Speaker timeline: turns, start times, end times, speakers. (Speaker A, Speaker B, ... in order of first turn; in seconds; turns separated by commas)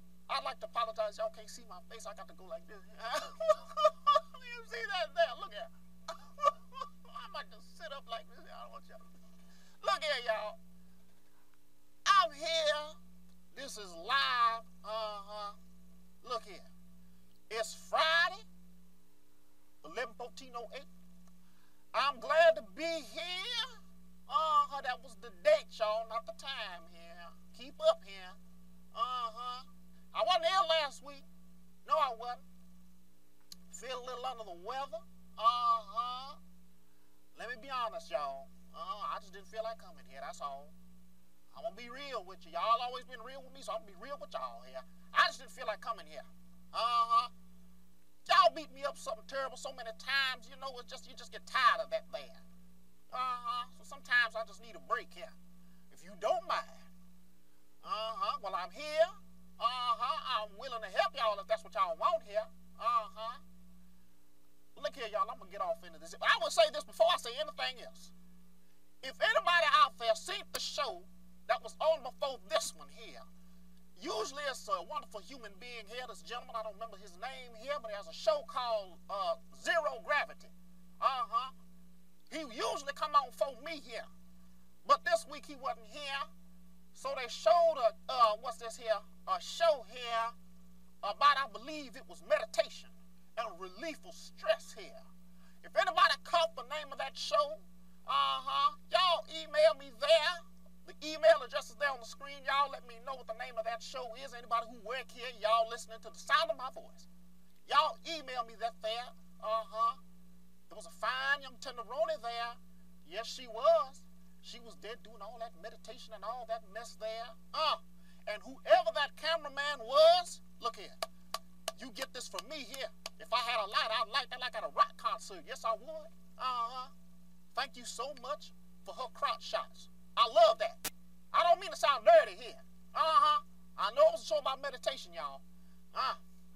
Speaker A: 0.3-9.0, Speaker A: 9.8-10.6, Speaker A: 12.1-13.0, Speaker A: 13.5-15.6, Speaker A: 16.2-16.7, Speaker A: 17.5-18.4, Speaker A: 19.8-20.9, Speaker A: 21.9-23.8, Speaker A: 24.3-28.4, Speaker A: 28.9-31.3, Speaker A: 31.9-32.4, Speaker A: 33.7-36.4, Speaker A: 37.4-40.7, Speaker A: 41.5-47.3, Speaker A: 48.2-52.4, Speaker A: 53.1-55.3, Speaker A: 55.9-56.9, Speaker A: 57.8-63.4, Speaker A: 64.8-68.1, Speaker A: 69.0-73.2, Speaker A: 74.0-81.5, Speaker A: 82.3-84.1, Speaker A: 84.8-86.3, Speaker A: 87.0-90.3, Speaker A: 91.0-95.0, Speaker A: 95.6-107.1, Speaker A: 107.7-110.0, Speaker A: 110.7-121.0, Speaker A: 121.8-126.9, Speaker A: 127.5-135.4